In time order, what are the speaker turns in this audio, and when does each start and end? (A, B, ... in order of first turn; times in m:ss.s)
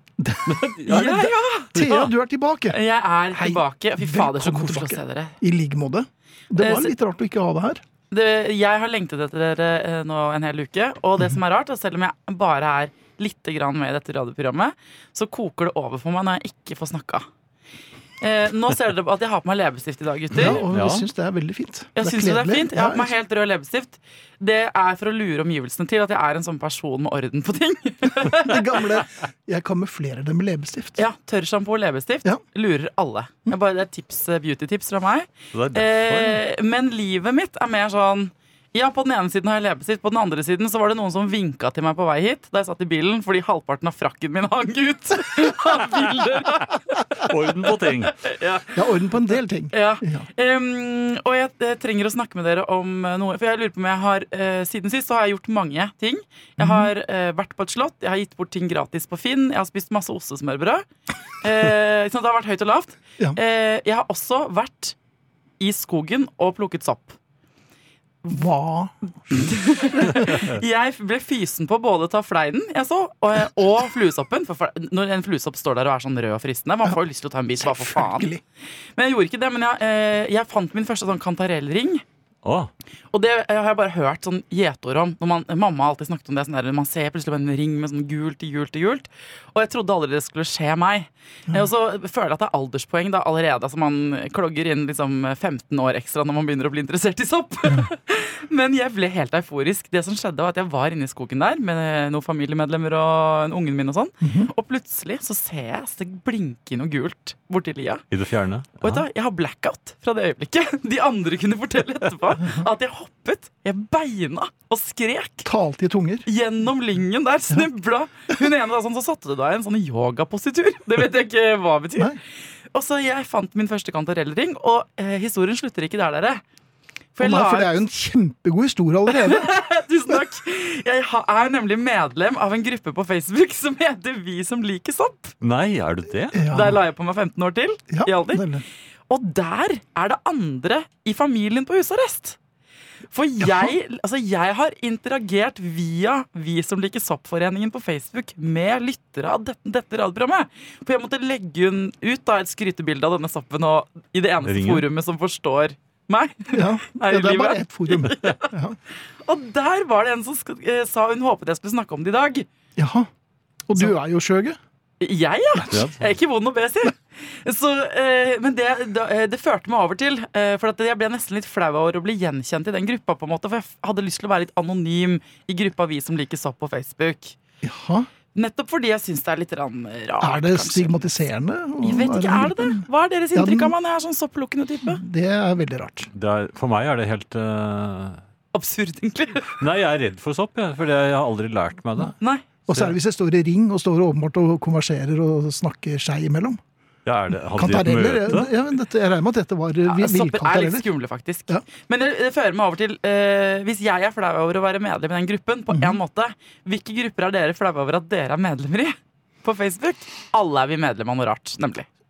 0:00.2-0:02.8 A
0:00.5-0:01.3 B
0:00.9-0:02.0 C
0:02.7-0:05.4 C
0:03.3-0:07.8 A
0:06.6-0:06.9 C
0:08.1-0:17.2 C
0:18.2-0:20.6 C
0:20.4-0:23.1 A
0:20.4-0:21.1 B
0:22.0-0:28.7 C
0:28.3-0:31.0 A
0:31.0-0:47.3 C
0:35.5-0:36.4 B
0:47.2-0:48.2 B
0:48.2-0:48.8 C
0:48.7-0:50.3 A
0:49.7-1:00.9 C
0:56.6-0:56.9 A
1:01.4-1:05.0 C
1:05.6-1:07.2 C
1:08.3-1:10.4 A
1:09.3-1:18.3 C
1:17.6-1:18.4 A
1:19.0-1:22.0 C
1:22.4-1:22.7 B
1:23.1-1:48.0 C
1:44.2-1:44.5 A
1:48.1-1:49.0 B
1:48.8-1:55.5 C
1:55.4-1:56.2 A
1:56.2-2:02.2 C
2:02.7-2:06.4 C
2:07.1-2:07.8 C
2:07.2-2:09.5 A
2:09.1-2:15.3 C
2:15.4-2:16.4 B
2:16.3-2:16.8 A
2:16.5-2:18.4 C
2:17.9-2:18.6 A
2:19.1-2:22.4 C
2:23.1-2:38.5 C
2:23.4-2:23.7 A
2:34.4-2:34.9 B
2:36.5-2:38.8 A
2:39.2-2:42.5 C
2:42.8-2:43.1 A
2:43.7-2:44.6 A
2:45.0-2:57.4 C
2:45.7-2:46.1 B
2:57.6-2:58.1 A
2:58.4-3:01.0 C
3:00.2-3:03.8 A
3:01.8-3:05.0 C
3:04.8-3:06.1 A
3:06.1-3:08.2 B
3:08.5-3:09.6 C
3:09.6-3:12.1 B
3:12.2-3:12.5 C
3:12.7-3:16.6 A
3:12.7-3:13.0 B
3:17.1-3:18.5 B
3:17.5-3:20.9 A
3:19.8-3:31.9 C
3:25.7-3:26.0 A